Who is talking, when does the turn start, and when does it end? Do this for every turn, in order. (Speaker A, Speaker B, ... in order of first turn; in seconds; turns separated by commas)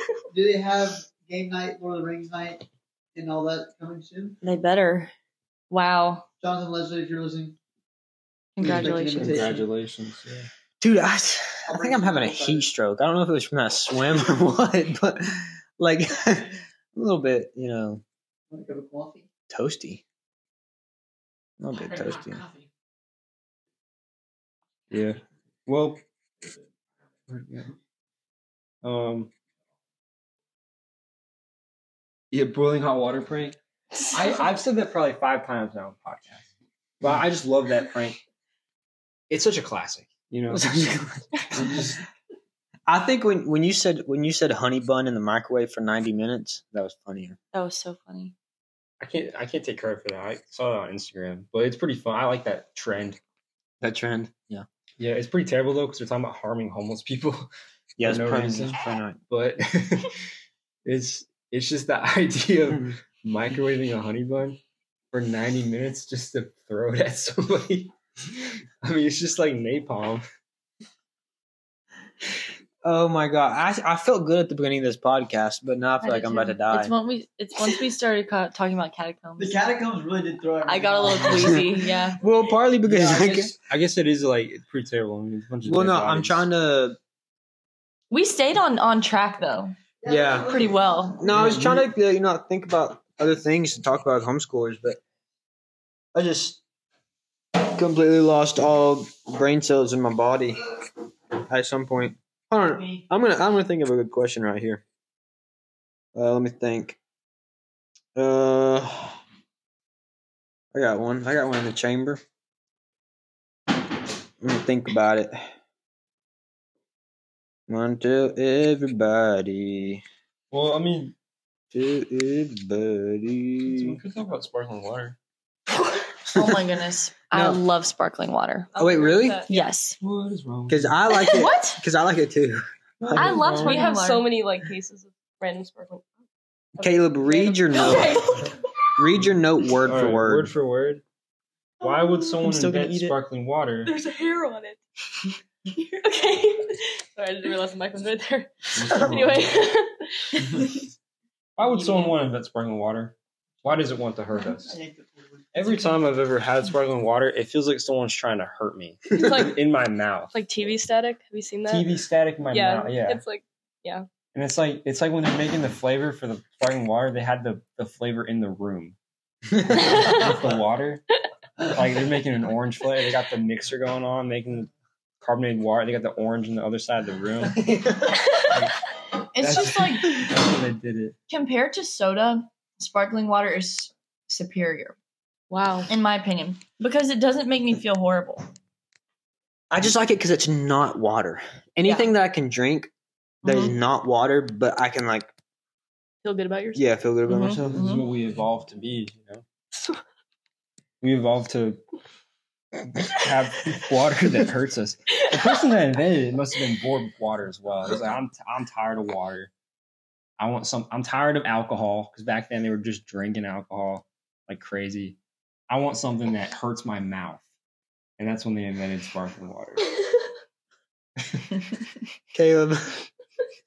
Speaker A: 0.3-4.4, Speaker B: 4.4-5.1, Speaker B: 5.7-6.2, Speaker A: 6.4-7.5, Speaker B: 8.6-9.4, Speaker A: 8.6-9.7, Speaker C: 8.6-10.5, Speaker D: 10.8-18.0, Speaker A: 11.7-12.7, Speaker A: 18.5-19.3, Speaker D: 19.5-20.0, Speaker D: 21.6-22.4, Speaker C: 24.9-26.0, Speaker C: 27.3-27.7, Speaker C: 28.8-29.3, Speaker C: 32.3-33.6, Speaker C: 34.1-36.5, Speaker C: 37.0-38.2, Speaker C: 39.3-40.9, Speaker D: 40.5-41.9, Speaker C: 41.5-42.0, Speaker D: 42.9-47.4, Speaker B: 47.5-48.3, Speaker C: 49.0-53.2, Speaker D: 53.8-54.6, Speaker C: 55.0-57.5, Speaker D: 58.0-59.2, Speaker C: 58.0-58.8, Speaker C: 59.3-60.2, Speaker C: 60.8-64.6, Speaker D: 62.7-63.0, Speaker C: 65.1-70.2, Speaker D: 72.8-76.9, Speaker B: 76.0-79.6, Speaker A: 79.4-81.8, Speaker B: 80.6-82.2, Speaker D: 81.3-83.5, Speaker A: 82.8-83.5, Speaker C: 83.6-86.5, Speaker D: 85.6-87.0, Speaker B: 88.1-89.8, Speaker A: 90.0-91.1, Speaker D: 90.1-90.6, Speaker B: 90.4-91.2, Speaker D: 91.2-95.0, Speaker C: 91.3-91.8, Speaker D: 96.1-96.6, Speaker D: 97.5-100.6, Speaker D: 101.5-104.8, Speaker D: 106.1-107.0, Speaker D: 108.1-109.2, Speaker D: 110.7-112.2, Speaker D: 114.4-115.5, Speaker D: 117.7-120.0, Speaker C: 120.5-121.1, Speaker D: 121.7-124.0, Speaker C: 123.7-125.2, Speaker D: 126.3-126.6, Speaker B: 126.3-128.7, Speaker D: 127.3-127.6, Speaker E: 128.7-129.7, Speaker D: 128.8-129.4, Speaker B: 129.5-130.0, Speaker C: 130.0-130.9, Speaker D: 130.7-133.3, Speaker B: 131.2-131.8, Speaker C: 133.0-133.8, Speaker B: 133.1-134.2, Speaker E: 133.4-136.1, Speaker E: 136.7-138.5, Speaker D: 136.8-138.4, Speaker B: 137.7-138.5, Speaker D: 139.0-140.5, Speaker C: 139.8-141.0, Speaker C: 141.8-143.9, Speaker E: 141.9-142.4, Speaker B: 142.4-143.2, Speaker E: 143.8-144.8, Speaker E: 145.7-150.8, Speaker C: 148.7-149.6, Speaker C: 151.6-154.8, Speaker E: 151.6-152.2, Speaker A: 154.5-155.9, Speaker C: 155.5-160.3, Speaker E: 159.1-159.5, Speaker E: 160.3-162.0, Speaker C: 161.7-163.2, Speaker E: 162.5-164.1, Speaker C: 164.3-169.0, Speaker C: 169.6-171.0, Speaker E: 170.0-170.2, Speaker C: 171.6-174.7, Speaker C: 175.2-178.8, Speaker B: 179.3-180.3, Speaker C: 179.4-181.2, Speaker B: 181.3-184.9, Speaker E: 185.5-185.9, Speaker B: 185.8-188.4, Speaker D: 189.7-192.9, Speaker B: 191.8-192.1, Speaker B: 193.4-193.8, Speaker D: 193.4-195.3, Speaker E: 196.2-196.9, Speaker D: 196.7-197.8, Speaker B: 197.3-198.1, Speaker C: 197.6-199.4, Speaker C: 201.0-201.8, Speaker C: 202.9-209.5, Speaker C: 210.4-215.2, Speaker C: 215.7-217.4, Speaker C: 218.2-219.9, Speaker D: 222.3-223.1